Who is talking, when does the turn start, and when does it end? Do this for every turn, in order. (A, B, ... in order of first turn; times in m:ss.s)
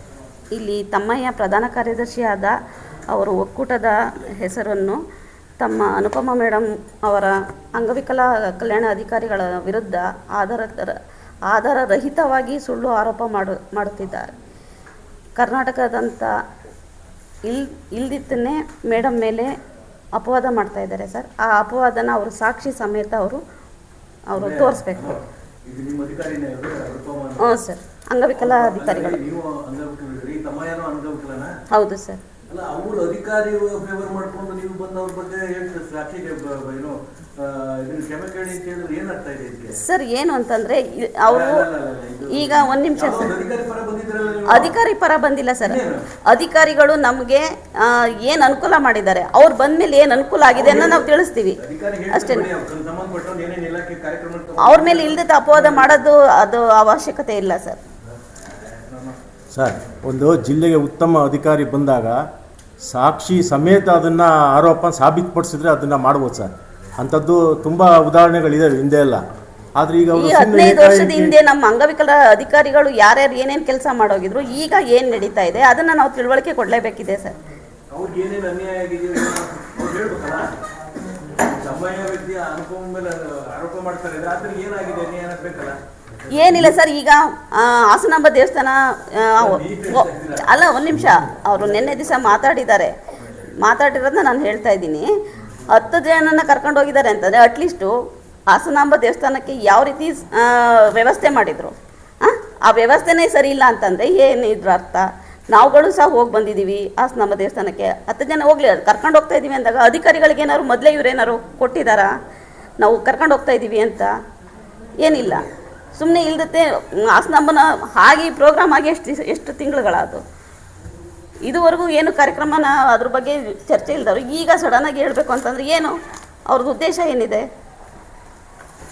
0:00.6-0:02.5 A
0:03.1-0:05.0 A
0:05.6-0:11.0 A
0:11.5-0:14.3 A
0:15.4-0:16.3 A
0:17.5-0:19.5 A
0:20.2-0:23.4 A
0:24.3-0:25.2 A
0:24.4-0:27.5 B
0:27.4-0:29.2 A
0:28.4-0:31.5 B
0:31.7-0:32.2 A
0:32.5-0:39.8 B
0:39.8-0:41.7 A
0:41.3-0:44.8 B
0:42.3-0:43.3 A
0:44.5-0:51.6 A
0:45.6-0:46.0 B
0:50.5-0:56.0 B
0:52.1-0:52.5 A
0:54.6-0:57.8 A
0:58.5-0:59.2 B
0:59.5-1:02.2 C
1:02.8-1:09.2 C
1:09.8-1:11.3 C
1:10.2-1:17.3 A
1:17.9-1:20.5 B
1:21.4-1:25.8 B
1:26.3-1:32.9 A
1:29.4-1:32.2 B
1:33.6-1:35.1 A
1:35.7-1:37.9 A
1:38.5-1:52.1 A
1:52.8-1:54.1 A
1:55.0-1:55.4 A
1:56.0-2:00.2 A
2:01.5-2:06.0 A
2:06.5-2:07.5 A